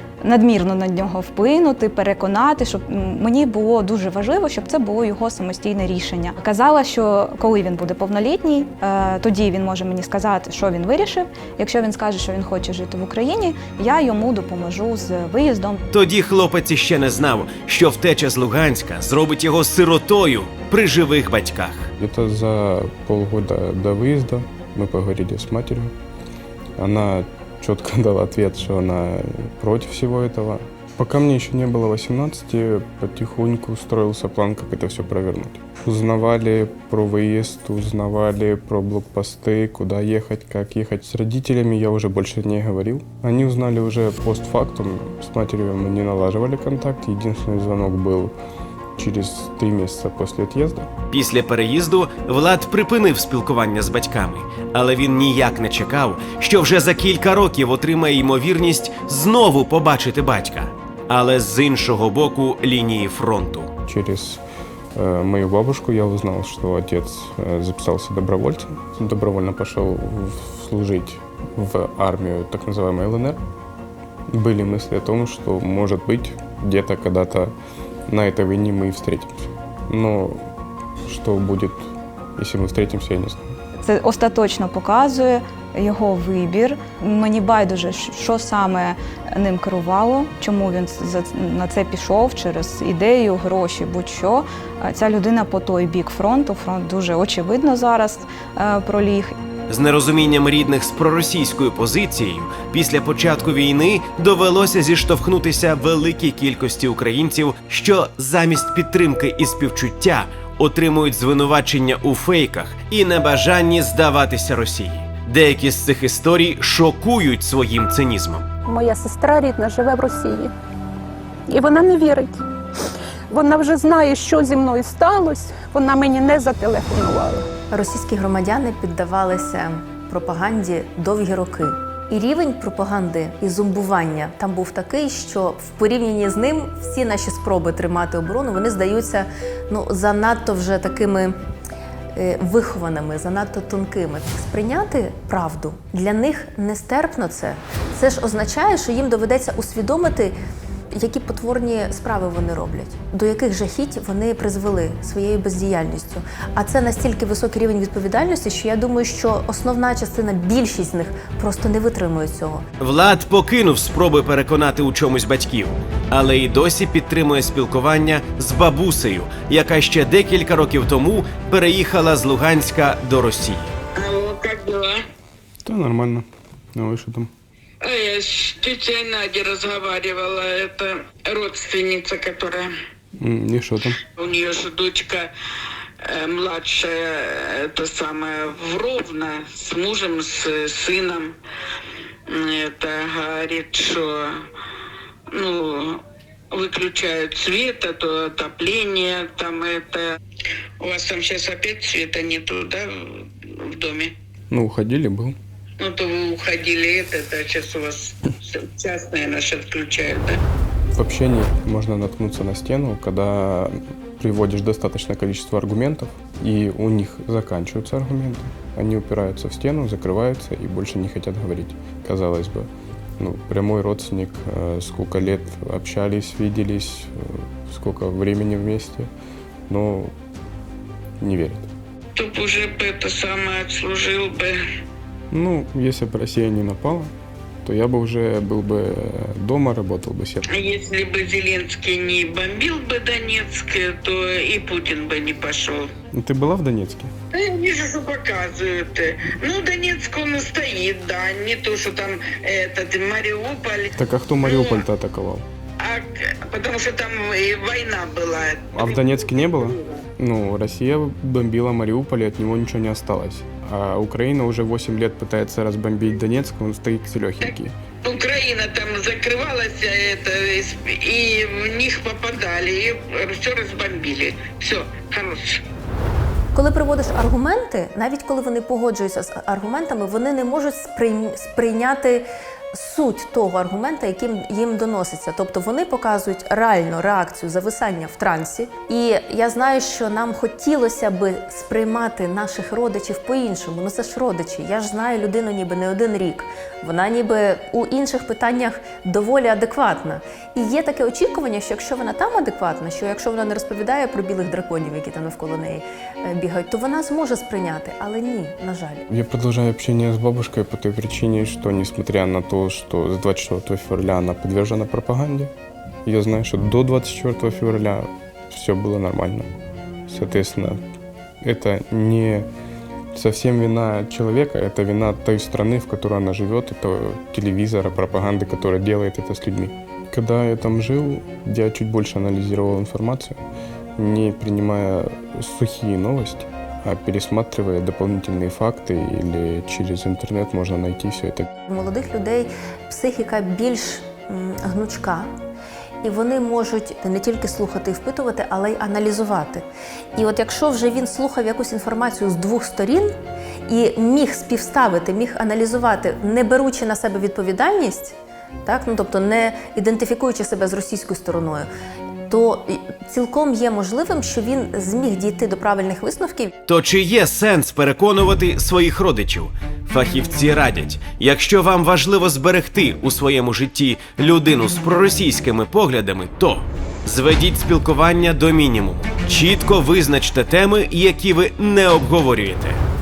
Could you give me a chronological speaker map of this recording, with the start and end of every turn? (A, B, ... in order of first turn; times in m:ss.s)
0:00.2-0:15.8 A
0:15.9-0:21.9 B
0:22.0-0:25.9 C
0:26.8-0:48.3 C
0:49.0-0:50.9 C
0:51.1-1:03.7 B
1:03.8-1:04.4 C
1:04.9-1:13.4 C
1:14.3-1:17.5 C
1:18.1-1:20.4 C
1:21.0-1:23.6 C
1:23.8-1:39.3 A
1:39.7-1:58.5 B
1:58.7-2:00.5 D
2:01.5-2:02.4 D
2:03.3-2:07.5 D
2:07.7-2:21.3 E
2:22.1-2:30.3 E
2:30.9-2:42.6 E
2:42.8-2:53.7 B
2:53.9-2:55.0 F
2:55.6-2:57.3 C
2:57.8-3:02.7 F
3:03.2-3:04.0 C
3:04.1-3:05.3 F
3:06.0-3:11.4 F
3:12.2-3:14.4 F
3:15.3-3:20.1 F
3:20.8-3:24.1 F
3:24.5-3:25.3 C
3:25.8-3:30.4 F
3:30.9-3:42.7 C
3:43.2-3:49.1 C
3:49.7-3:50.1 C
3:51.2-3:51.7 C
3:52.1-3:54.6 F
3:55.3-3:57.1 C
3:57.6-4:00.5 C
4:00.5-4:05.9 F
4:06.1-4:07.1 C
4:07.3-4:13.9 F
4:14.0-4:15.4 C
4:14.4-4:14.8 F
4:15.8-4:20.0 F
4:18.8-4:27.8 C
4:28.0-4:35.6 F
4:36.5-5:09.1 E
5:09.1-5:15.5 C
5:16.0-5:19.5 C
5:20.1-5:20.8 C
5:21.4-5:22.5 C
5:23.1-5:33.4 C
5:34.0-5:41.5 C
5:41.7-5:45.3 E
5:46.0-5:49.6 E
5:50.2-5:53.1 E
5:53.7-6:01.7 E
6:02.3-6:06.5 E
6:06.7-6:22.8 B